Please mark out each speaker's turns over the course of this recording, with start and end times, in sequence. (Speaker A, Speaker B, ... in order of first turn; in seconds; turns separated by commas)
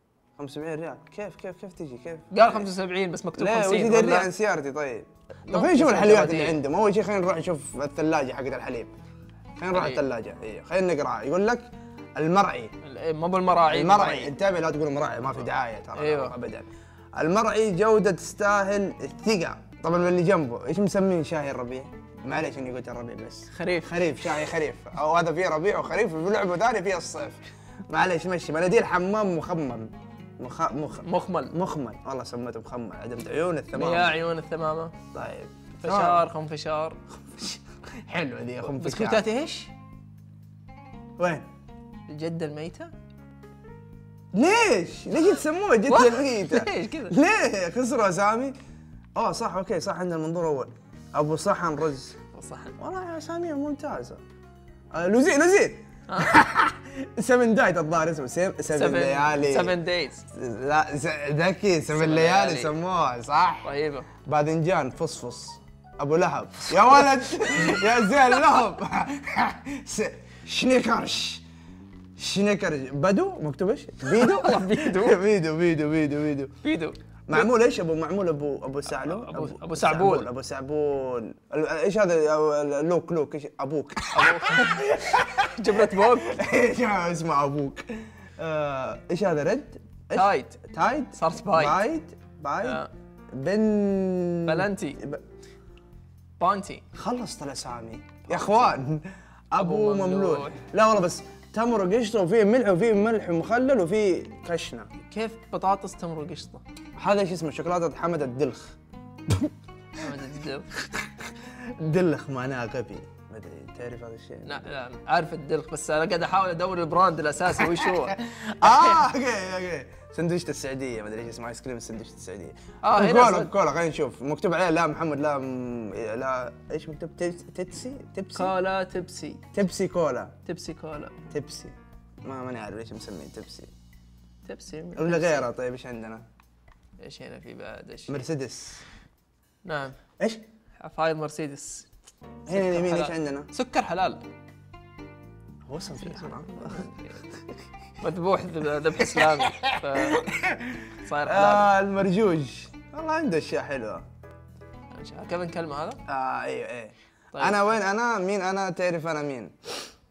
Speaker A: 0.4-2.7, Speaker B: 2.3-4.3, Speaker A: 3.4-8.9, Speaker B: 5.5-6.6, Speaker A: 9.6-12.7, Speaker B: 9.7-10.0, Speaker B: 12.8-14.3, Speaker A: 13.7-34.2, Speaker B: 16.0-16.4, Speaker B: 23.5-24.1, Speaker B: 31.0-31.6, Speaker B: 33.7-34.9, Speaker A: 35.1-36.3, Speaker B: 35.8-37.0, Speaker A: 37.2-39.2, Speaker B: 38.7-39.7, Speaker A: 41.2-41.5, Speaker B: 42.1-42.9, Speaker A: 44.3-48.6, Speaker B: 45.9-47.2, Speaker A: 49.2-52.2, Speaker B: 52.3-52.8, Speaker A: 52.8-54.2, Speaker A: 54.9-59.8, Speaker B: 56.1-56.4, Speaker B: 58.7-60.3, Speaker A: 60.4-63.7, Speaker B: 61.9-62.7, Speaker B: 63.6-64.1, Speaker A: 64.2-71.4, Speaker B: 67.0-67.8, Speaker A: 72.2-76.5, Speaker B: 74.1-75.2, Speaker B: 76.6-77.5, Speaker A: 77.3-92.8, Speaker B: 78.9-80.3, Speaker B: 84.1-84.9, Speaker B: 85.6-86.3, Speaker B: 90.1-90.6, Speaker B: 91.2-91.8, Speaker B: 92.6-92.9, Speaker A: 93.3-95.2, Speaker B: 94.5-95.0, Speaker B: 96.4-96.8, Speaker A: 97.0-104.9, Speaker B: 99.6-100.6, Speaker B: 105.1-106.6, Speaker A: 107.0-110.0, Speaker B: 110.0-110.7, Speaker A: 110.9-114.7, Speaker B: 114.5-119.0, Speaker A: 117.6-128.5, Speaker B: 122.8-123.5, Speaker B: 128.3-129.4, Speaker A: 129.5-130.3, Speaker B: 130.4-131.3, Speaker A: 131.3-133.7, Speaker B: 134.4-135.5, Speaker A: 135.0-136.2, Speaker B: 137.0-138.2, Speaker A: 138.1-138.8, Speaker B: 139.6-140.0, Speaker B: 140.8-141.9, Speaker A: 142.5-143.5, Speaker B: 142.5-144.2, Speaker A: 145.7-146.9, Speaker B: 146.0-147.4, Speaker B: 148.0-150.4, Speaker A: 149.0-154.1, Speaker B: 151.0-151.7, Speaker B: 154.9-156.0, Speaker A: 156.1-159.5, Speaker B: 157.3-157.7